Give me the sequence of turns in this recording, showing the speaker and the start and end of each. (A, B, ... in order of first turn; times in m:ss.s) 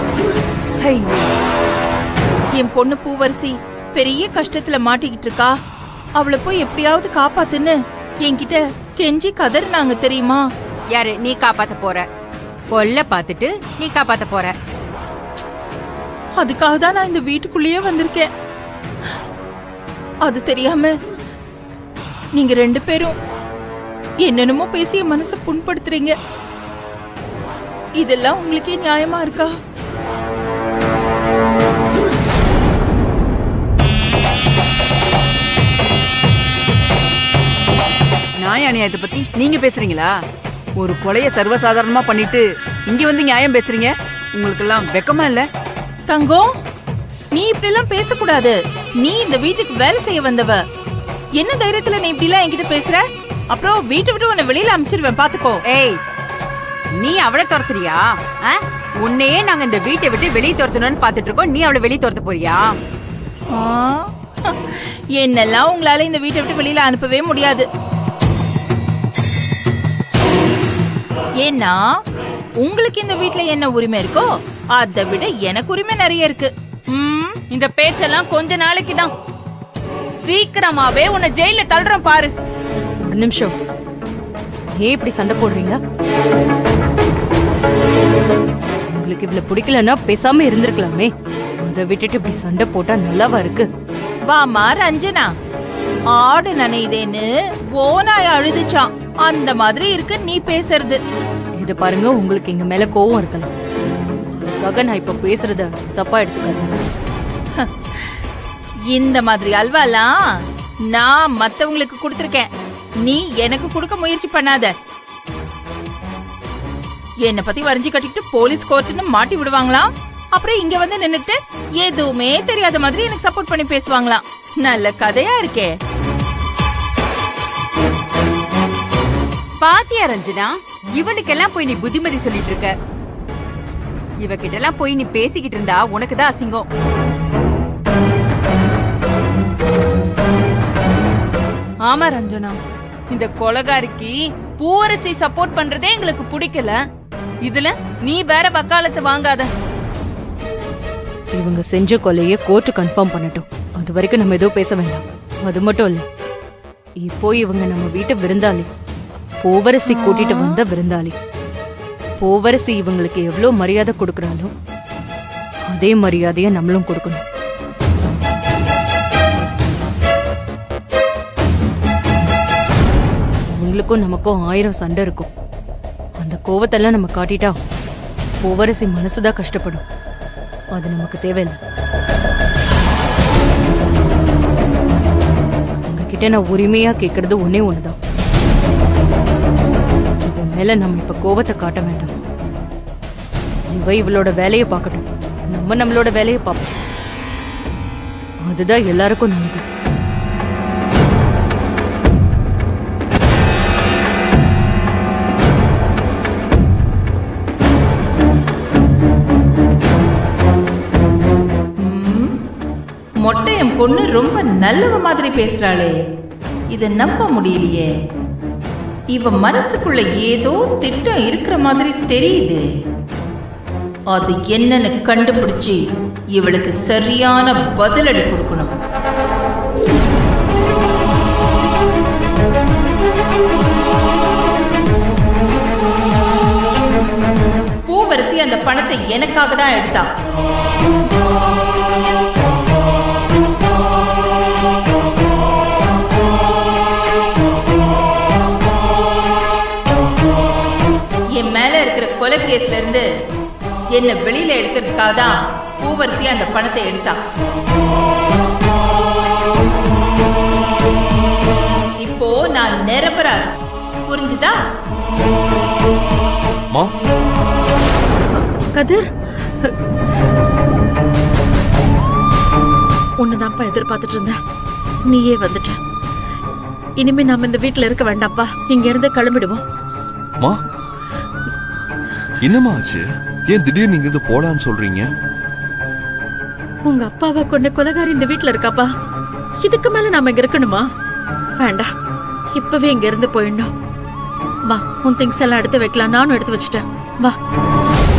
0:00.8-0:01.3 A
0:02.6-0:05.5 B
0:06.2-0:10.4 B
0:10.9-0:12.1 A
0:12.7-0:14.5 A
0:16.4-0:18.3 B
0:20.2-0:20.9 B
0:22.4-0:23.2 B
0:24.2-0:26.1 B
0:28.0-0:29.5 B
0:38.4-0:40.1 C
0:40.8-0:45.4 C
0:46.1-0:46.4 B
0:47.3-0:50.6 B
0:51.4-0:55.6 B
0:55.7-0:56.0 A
0:57.0-1:02.7 A
1:03.5-1:07.6 B
1:11.4-1:11.8 B
1:12.6-1:17.4 B
1:17.5-1:19.1 D
1:20.2-1:22.3 D
1:23.0-1:23.6 E
1:24.8-1:25.8 E
1:28.9-1:31.1 E
1:31.6-1:33.7 E
1:34.3-1:35.3 B
1:36.2-1:41.0 B
1:41.6-1:43.5 E
1:44.4-1:46.8 E
1:47.6-1:48.2 B
1:48.9-1:50.2 B
1:50.9-1:52.5 B
1:53.0-1:54.7 B
1:57.2-2:05.7 B
2:09.6-2:12.7 A
2:14.2-2:16.6 A
2:21.9-2:22.6 D
2:23.1-2:26.8 D
2:27.5-2:29.4 D
2:31.4-2:36.0 E
2:37.0-2:38.7 E
2:39.4-2:41.2 E
2:40.0-2:40.6 B
2:42.2-2:44.5 E
2:45.7-2:47.2 E
2:53.5-2:55.3 E
2:56.2-2:57.6 E
2:58.4-2:59.8 E
3:00.8-3:01.6 E
3:05.9-3:08.0 E
3:10.2-3:12.1 E
3:13.7-3:16.7 E
3:18.5-3:19.6 E
3:31.8-3:32.3 B
3:33.2-3:36.0 B
3:36.7-3:37.9 B
3:39.1-3:42.6 B
3:44.1-3:45.8 B
3:46.4-3:48.7 B
3:57.9-4:00.1 B
4:11.4-4:13.0 B
4:13.9-4:17.2 B
4:22.0-4:23.4 B
4:24.1-4:24.6 B
4:28.3-4:29.1 F
4:33.2-4:34.4 F
4:35.0-4:35.8 F
4:37.0-4:39.6 F
4:42.4-4:45.1 G
4:46.8-4:48.9 F
4:49.6-4:50.9 F
4:51.6-4:51.9 F
4:52.5-4:53.7 F
4:54.7-4:57.4 F